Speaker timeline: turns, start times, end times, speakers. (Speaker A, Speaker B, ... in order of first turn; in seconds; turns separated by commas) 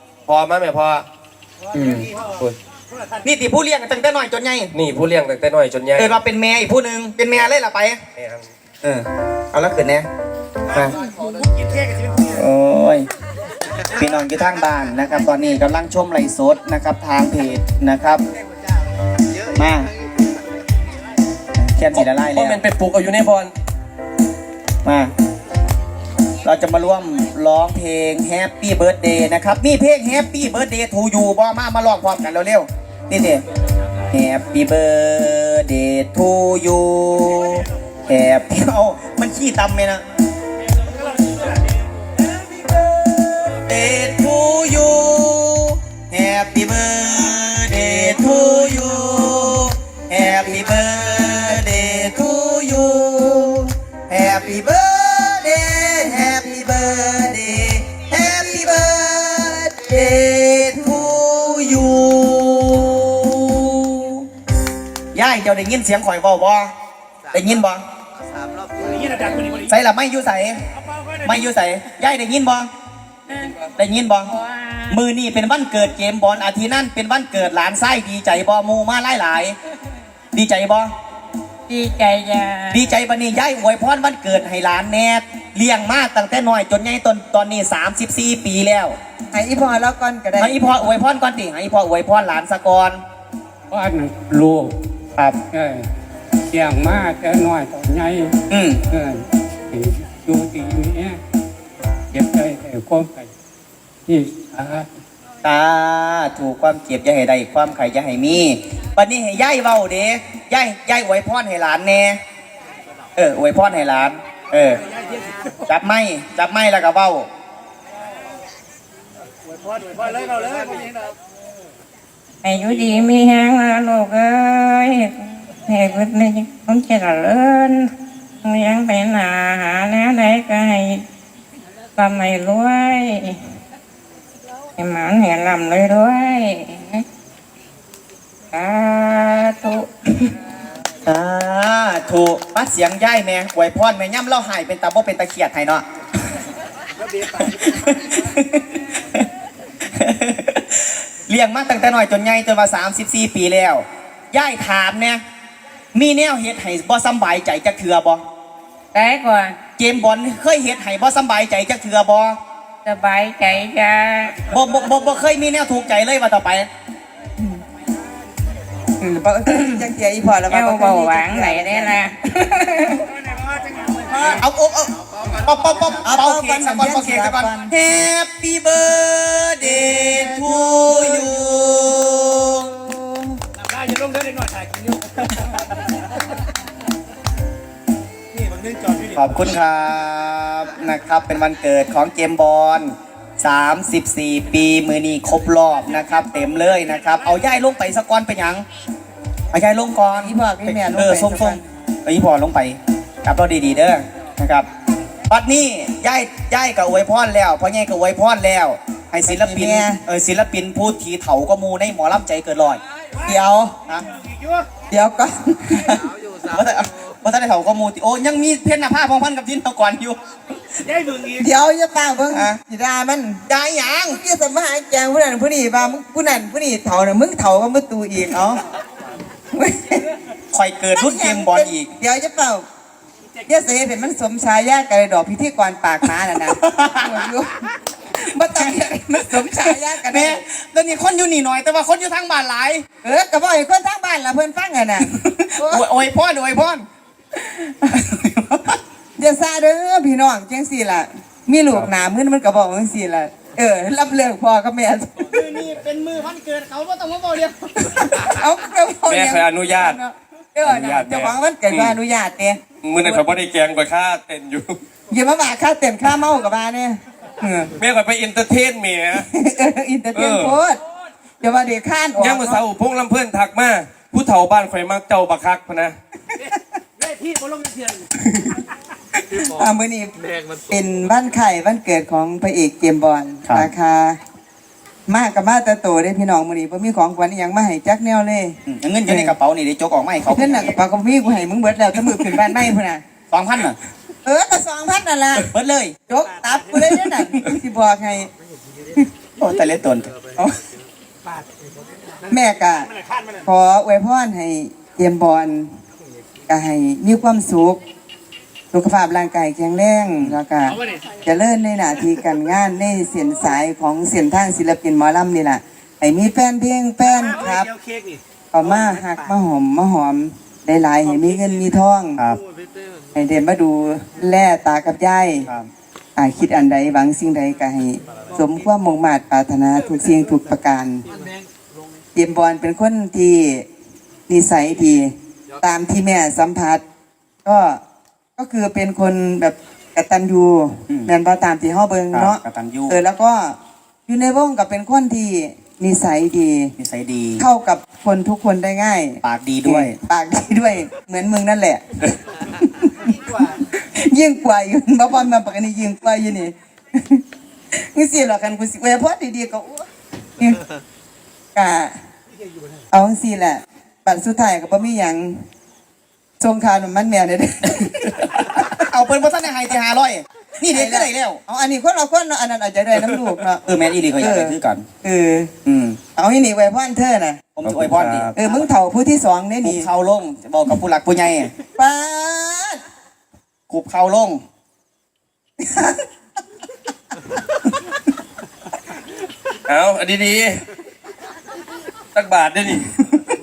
Speaker A: 0.3-1.1, Speaker B: 1.7-2.1, Speaker B: 3.2-4.7, Speaker A: 4.7-6.2, Speaker B: 6.0-8.0, Speaker A: 8.2-8.5, Speaker B: 8.8-10.1, Speaker B: 10.7-10.9, Speaker B: 12.2-13.1, Speaker B: 13.9-18.2, Speaker B: 19.5-19.9, Speaker B: 21.6-22.6, Speaker A: 21.9-23.5, Speaker B: 24.8-25.1, Speaker B: 26.4-33.4, Speaker B: 34.1-40.0, Speaker B: 43.1-55.4, Speaker C: 54.2-59.9, Speaker B: 56.0-59.3, Speaker B: 59.8-64.2, Speaker B: 65.1-66.7, Speaker B: 67.3-67.8, Speaker B: 69.4-70.6, Speaker B: 71.2-72.7, Speaker D: 73.3-73.6, Speaker B: 73.7-74.3, Speaker D: 74.3-75.0, Speaker B: 74.9-79.6, Speaker B: 80.3-80.9, Speaker D: 81.7-82.9, Speaker B: 82.7-89.0, Speaker C: 89.3-90.7, Speaker B: 90.4-93.0, Speaker E: 93.7-94.8, Speaker E: 95.5-95.9, Speaker E: 96.5-98.3, Speaker B: 98.5-98.8, Speaker E: 98.9-101.2, Speaker E: 102.1-103.3, Speaker E: 104.1-104.9, Speaker B: 105.4-112.2, Speaker B: 113.2-114.8, Speaker B: 115.7-117.3, Speaker D: 122.4-127.9, Speaker D: 128.4-131.0, Speaker D: 132.0-133.4, Speaker D: 134.8-137.0, Speaker D: 138.5-140.3, Speaker B: 141.1-145.8, Speaker B: 147.3-149.2, Speaker B: 149.8-155.2, Speaker B: 155.9-158.2, Speaker D: 158.9-159.6, Speaker B: 159.8-162.4, Speaker D: 162.8-164.4, Speaker B: 164.5-166.7, Speaker C: 169.0-172.0, Speaker D: 169.5-169.8, Speaker D: 170.5-173.1, Speaker B: 173.9-182.8, Speaker C: 176.0-177.7, Speaker C: 179.8-181.2, Speaker B: 189.0-198.6, Speaker B: 199.5-204.7, Speaker C: 200.2-201.6, Speaker B: 205.3-212.8, Speaker C: 209.2-210.0, Speaker C: 213.2-213.8, Speaker C: 214.9-215.9, Speaker B: 215.8-220.2, Speaker C: 221.3-223.4, Speaker B: 223.5-224.2, Speaker C: 224.1-228.4, Speaker B: 228.3-228.6, Speaker C: 229.5-230.1, Speaker B: 230.5-231.9, Speaker C: 230.9-232.6, Speaker C: 233.4-237.6, Speaker B: 236.5-237.2, Speaker C: 238.2-240.4, Speaker B: 239.3-242.8, Speaker C: 243.0-245.8, Speaker B: 245.0-246.8, Speaker B: 247.7-248.8, Speaker C: 249.2-255.4, Speaker B: 255.3-258.3, Speaker C: 257.9-263.2, Speaker A: 259.1-260.0, Speaker A: 260.6-262.0, Speaker A: 262.8-264.8, Speaker C: 265.1-267.7, Speaker A: 267.8-269.3, Speaker C: 269.1-270.8, Speaker A: 270.1-270.6, Speaker C: 271.4-272.6, Speaker A: 272.2-275.9, Speaker C: 279.3-280.1, Speaker C: 280.7-284.2, Speaker C: 285.1-289.4, Speaker B: 288.6-290.8, Speaker C: 290.2-293.0, Speaker B: 293.3-293.8, Speaker C: 294.2-295.5, Speaker B: 295.5-295.9, Speaker C: 296.1-298.3, Speaker B: 299.4-300.1, Speaker C: 302.3-302.9, Speaker C: 303.4-305.7, Speaker C: 306.5-307.8, Speaker C: 308.7-317.7, Speaker C: 318.5-322.2, Speaker C: 323.1-325.5, Speaker C: 326.1-331.1, Speaker C: 332.1-333.6, Speaker C: 334.3-336.8, Speaker C: 337.4-337.8, Speaker C: 338.4-346.7, Speaker B: 342.1-343.0, Speaker B: 346.8-347.4, Speaker C: 347.4-357.2, Speaker B: 349.2-350.0, Speaker C: 357.7-359.9, Speaker C: 361.5-361.9, Speaker C: 362.9-365.4, Speaker C: 366.4-368.6, Speaker B: 368.8-371.4, Speaker C: 370.7-373.6, Speaker B: 373.6-374.8, Speaker C: 374.2-375.5, Speaker B: 375.6-376.0, Speaker C: 376.1-377.4, Speaker B: 377.5-378.3, Speaker A: 377.6-378.4, Speaker C: 378.3-379.9, Speaker B: 379.6-381.5, Speaker C: 381.8-382.8, Speaker B: 383.7-384.4, Speaker A: 389.7-390.6, Speaker A: 392.1-393.0